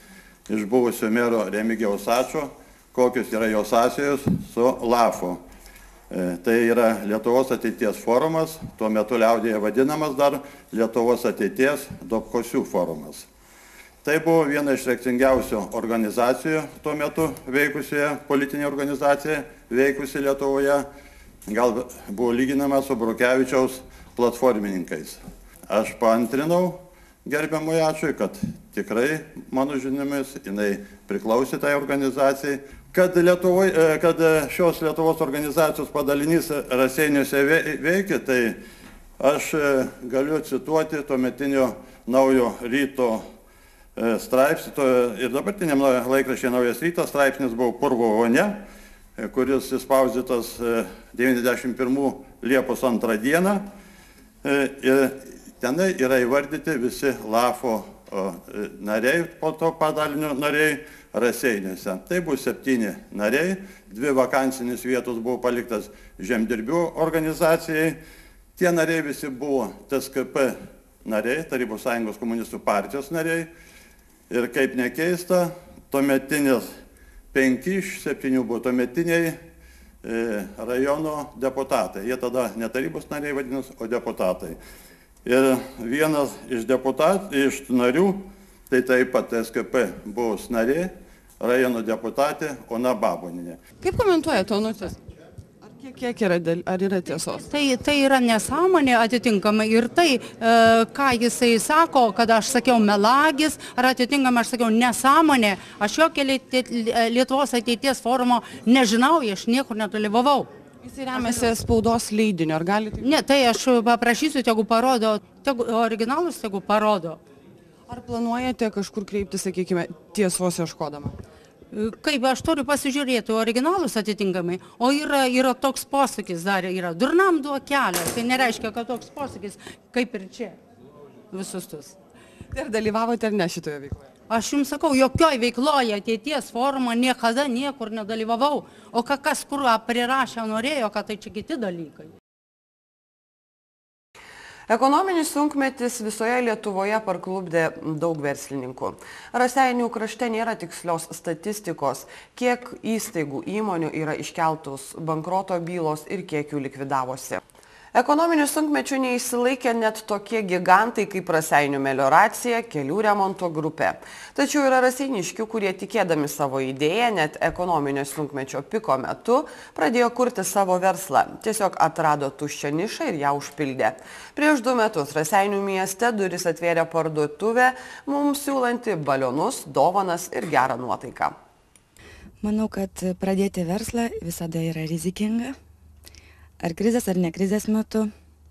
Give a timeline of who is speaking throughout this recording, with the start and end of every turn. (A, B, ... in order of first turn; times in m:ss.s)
0:00.5-0:05.4 A
0:06.1-0:13.3 A
0:14.0-0:20.9 A
0:21.5-0:38.6 A
0:39.2-0:43.2 A
0:44.0-0:48.6 A
0:49.2-0:53.7 A
0:54.4-1:08.0 A
1:08.6-1:13.5 A
1:14.3-1:16.7 A
1:17.3-1:19.4 A
1:20.0-1:24.6 A
1:25.2-1:33.6 A
1:33.8-1:35.0 B
1:35.6-1:37.4 B
1:37.3-1:50.5 C
1:50.8-1:53.1 B
1:53.0-1:57.2 C
1:57.9-2:01.2 B
2:01.7-2:10.6 C
2:11.3-2:12.0 C
2:12.5-2:14.0 B
2:14.3-2:22.1 C
2:24.7-2:37.4 B
2:37.9-3:01.4 B
3:02.4-3:05.6 D
3:06.6-3:08.1 D